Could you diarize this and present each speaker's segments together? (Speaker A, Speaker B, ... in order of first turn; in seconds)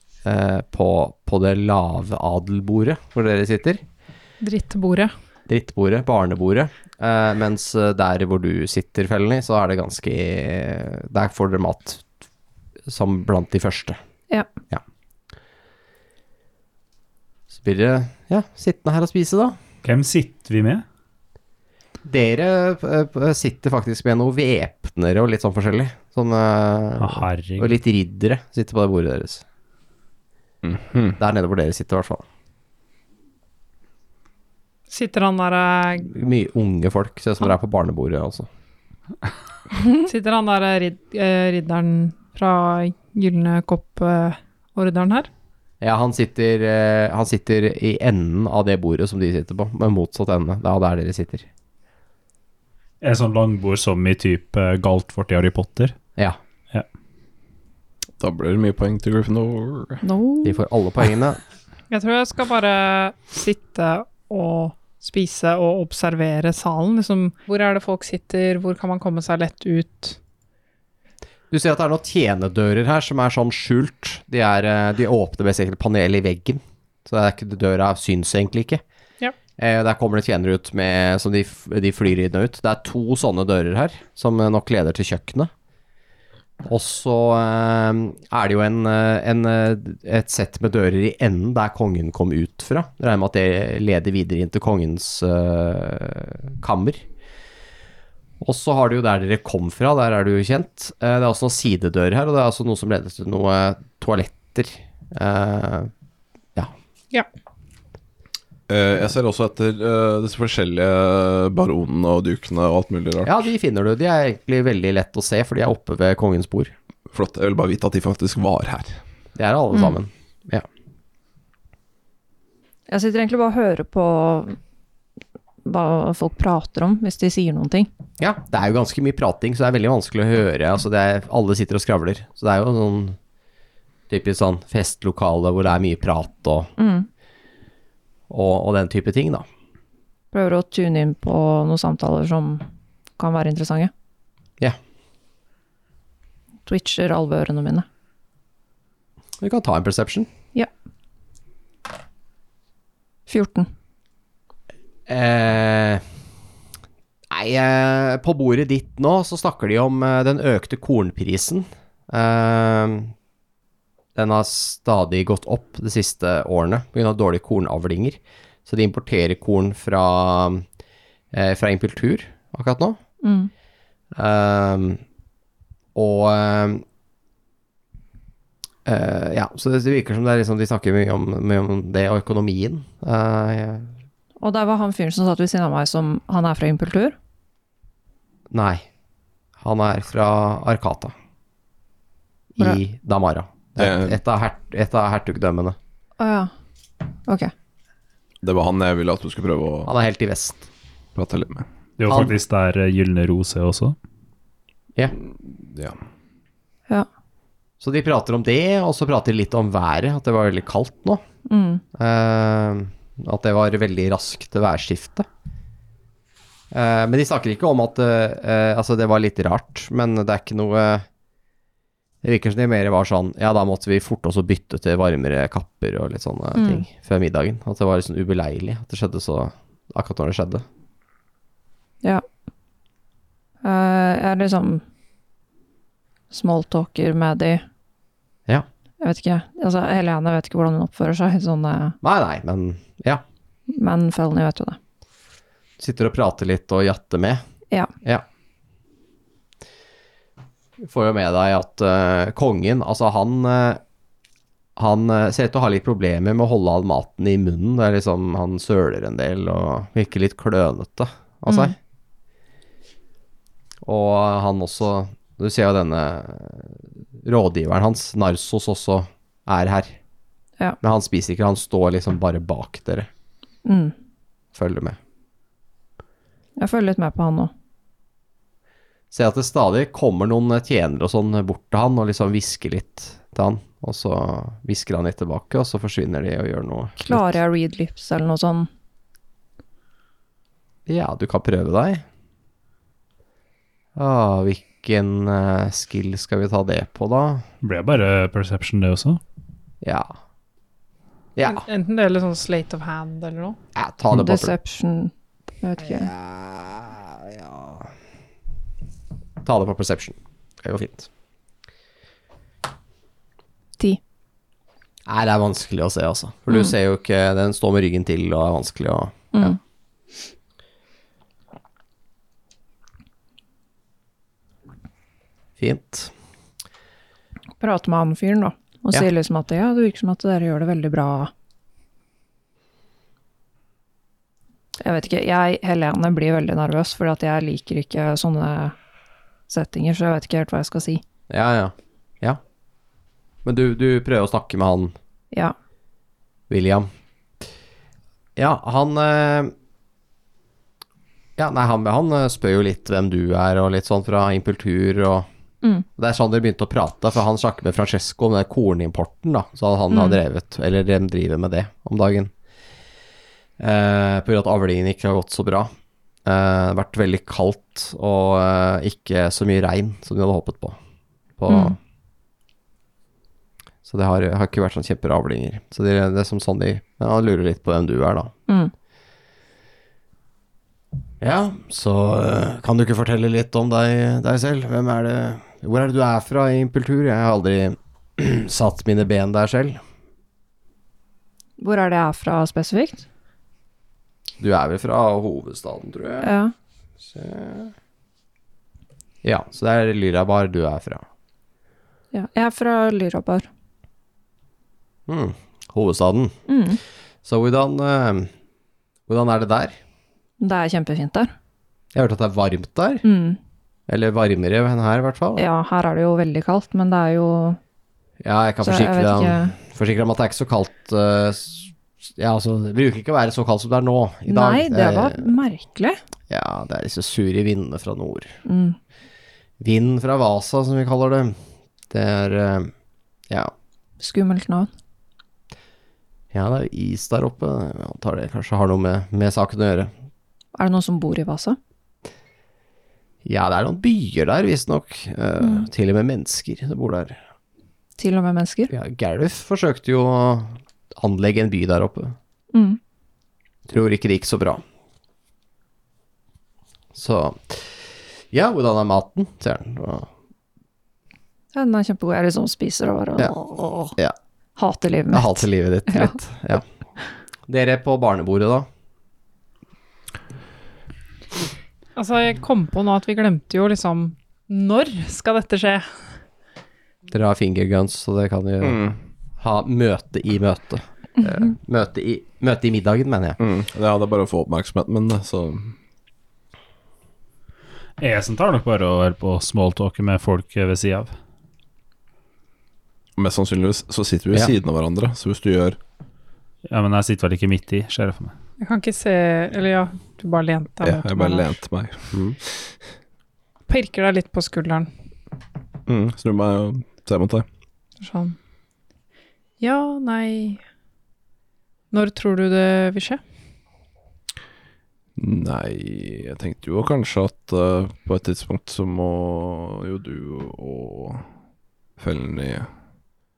Speaker A: 0.2-3.8, 5.5-12.0, 12.9-14.0, 17.5-19.6, 22.0-29.4, 31.2-32.2, 36.0-38.5, 45.8-51.5, 60.4-61.4, 71.5-78.8, 79.6-85.5, 86.6-97.0, 98.4-105.9, 113.2-116.7, 119.3-120.6, 128.2-133.2, 134.1-136.7, 138.3-139.4, 149.4-150.3, 155.1-156.0, 157.3-163.1, 164.1-170.6, 171.3-173.0, 174.1-175.0, 175.9-176.8, 178.8-183.9, 188.5-188.8, 189.6-191.1, 192.6-195.8, 199.8-200.7, 202.1-202.3, 207.8-211.2, 211.9-215.2, 216.7-221.1, 222.2-230.6, 242.0-243.2, 245.8-247.4, 250.8-253.8, 254.8-261.8, 263.8-269.9, 270.8-273.1, 274.5-275.0, 279.1-287.4, 290.9-292.0, 293.9-297.4, 299.8-300.1, 301.4-301.6, 303.7-304.5, 305.9-307.9, 309.4-311.1, 315.1-319.6, 325.6-326.1, 341.3-342.4, 343.4-344.9, 346.5-346.9, 348.4-349.5, 351.4-355.3, 356.0-362.3, 363.6-365.7, 366.2-370.8, 371.4-371.8, 373.8-378.3, 381.2-389.8, 394.4-396.3, 397.0-397.7, 399.2-401.0, 405.1-406.3, 407.2-408.3, 409.1-409.7, 411.9-413.0, 413.9-415.4, 418.2-425.2, 426.3-428.3, 429.6-431.4, 431.9-432.7, 436.3-439.9, 443.2-447.2, 448.7-452.1, 453.7-454.6, 456.9-460.1, 465.1-466.6, 467.5-468.7, 477.1-478.8, 479.4-483.4, 502.1-502.4
Speaker B: 4.4-5.1, 34.9-36.1, 40.0-45.3, 61.9-70.2, 301.5-303.6, 471.9-475.9, 498.6-501.6, 503.7-504.9, 508.0-508.4, 509.6-510.6, 511.9-513.2
Speaker C: 19.8-20.8, 27.0-27.8, 53.0-55.9, 202.0-203.9, 297.6-299.2, 488.0-491.1, 496.7-498.3
Speaker D: 30.6-31.2, 58.2-60.0, 108.7-113.3, 117.1-119.0, 193.8-194.2, 198.4-199.9, 201.2-201.7, 205.2-206.0, 478.6-479.0, 483.4-485.7, 493.2-495.8, 500.8-502.8, 505.9-507.4, 515.2-521.2, 522.0-522.7
Speaker E: 60.0-60.6, 119.7-120.0, 122.9-124.6, 125.6-127.9, 136.8-137.1, 140.3-142.6, 143.2-143.9, 146.7-147.8, 153.3-153.7, 173.2-173.5, 184.4-187.1, 196.2-196.5, 197.3-197.5, 211.4-211.8, 226.5-226.8, 233.6-234.8, 236.3-237.6, 239.0-241.9, 243.7-244.8, 273.6-273.9, 276.6-277.5, 287.0-288.7, 304.1-306.1, 316.5-316.7, 327.6-331.3, 334.8-338.7, 339.5-341.0, 359.9-360.2, 371.5-371.7, 391.6-393.0, 396.2-396.5, 402.1-403.5, 406.5-406.8, 410.4-411.3, 413.0-413.4, 415.4-417.6, 418.6-419.5, 424.3-426.0, 428.4-428.8, 434.0-434.7, 440.5-441.6, 445.4-445.7, 448.0-448.7, 452.5-452.8, 461.5-463.9, 464.6-466.1